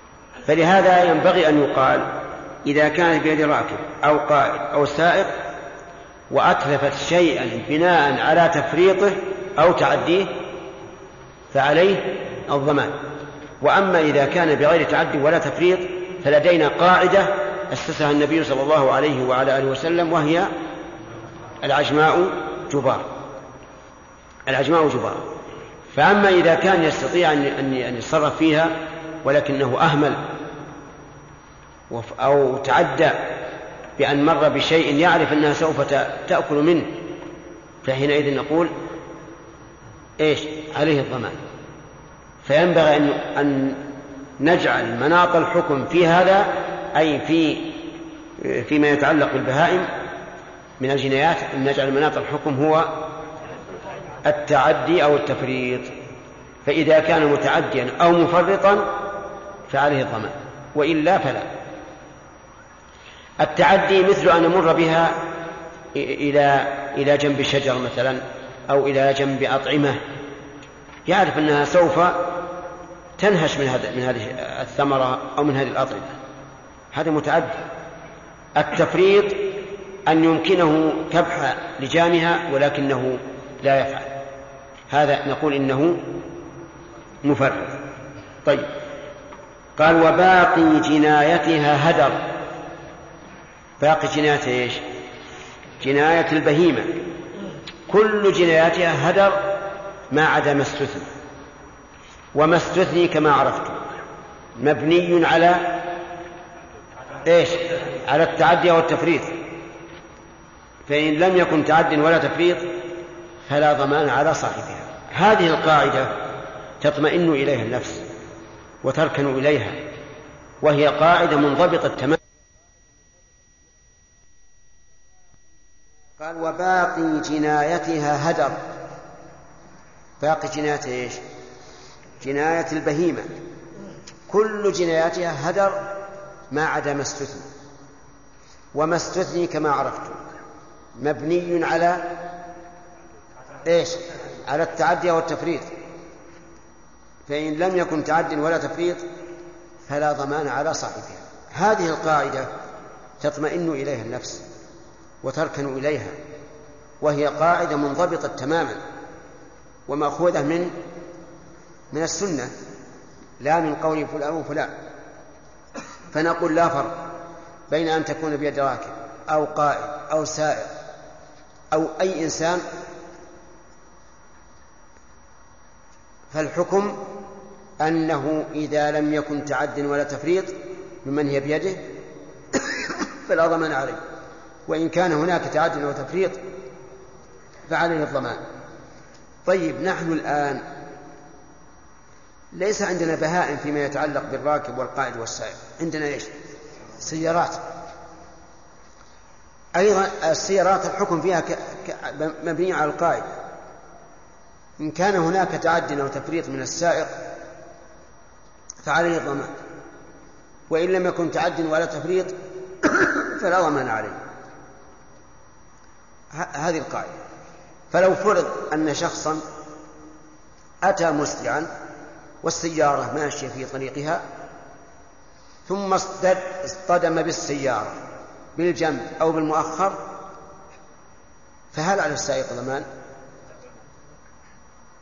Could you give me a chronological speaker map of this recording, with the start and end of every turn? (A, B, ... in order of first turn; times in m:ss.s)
0:00.4-0:05.4 A
0:06.3-0:10.4 A
0:11.5-0:13.0 A
0:13.6-0:20.5 A
0:21.6-0:23.1 A
0:24.5-0:25.3 A
0:25.9-0:30.3 A
0:31.9-0:33.3 A
0:34.0-0:37.1 A
0:37.8-0:38.7 A
0:40.2-0:41.4 A
0:42.4-0:43.9 A
0:44.4-0:49.9 A
0:50.8-0:53.0 A
0:54.2-0:55.9 A
0:56.6-0:58.9 A
0:59.7-1:01.5 A
1:03.4-1:05.2 A
1:05.9-1:10.0 A
1:11.0-1:12.4 A
1:13.2-1:16.2 A
1:16.9-1:17.6 A
1:18.6-1:24.2 A
1:24.9-1:26.2 A
1:27.2-1:27.8 A
1:28.4-1:28.7 A
1:29.8-1:32.3 A
1:33.8-1:34.8 A
1:35.8-1:37.1 A
1:37.9-1:39.6 A
1:40.1-1:41.1 A
1:42.3-1:43.8 A
1:44.6-1:45.8 A
1:47.2-1:49.4 A
1:50.9-1:52.8 A
1:53.4-1:56.2 A
1:56.8-1:58.1 A
1:58.8-1:59.8 A
2:00.6-2:02.2 A
2:06.2-2:08.6 A
2:10.2-2:11.2 A
2:12.2-2:13.4 A
2:14.3-2:15.9 A
2:16.5-2:17.5 A
2:18.7-2:20.2 A
2:21.0-2:22.2 A
2:23.6-2:25.7 A
2:27.3-2:29.1 A
2:29.8-2:32.5 A
2:33.2-2:34.5 A
2:35.2-2:36.2 A
2:37.0-2:38.8 A
2:39.9-2:40.8 A
2:41.9-2:42.5 A
2:43.4-2:44.8 A
2:46.1-2:47.0 A
2:47.7-2:50.7 A
2:51.7-2:52.6 A
2:56.3-2:57.0 A
2:57.8-3:01.8 A
3:02.5-3:04.0 A
3:04.7-3:06.4 A
3:07.7-3:08.4 A
3:09.4-3:10.6 A
3:12.5-3:16.3 A
3:17.0-3:17.6 A
3:19.7-3:23.4 A
3:24.8-3:27.2 A
3:28.8-3:29.5 A
3:30.7-3:34.2 A
3:36.3-3:37.1 A
3:37.9-3:39.4 A
3:40.8-3:41.7 A
3:42.4-3:44.2 A
3:45.6-3:48.0 A
3:48.6-3:50.1 A
3:51.7-3:52.9 A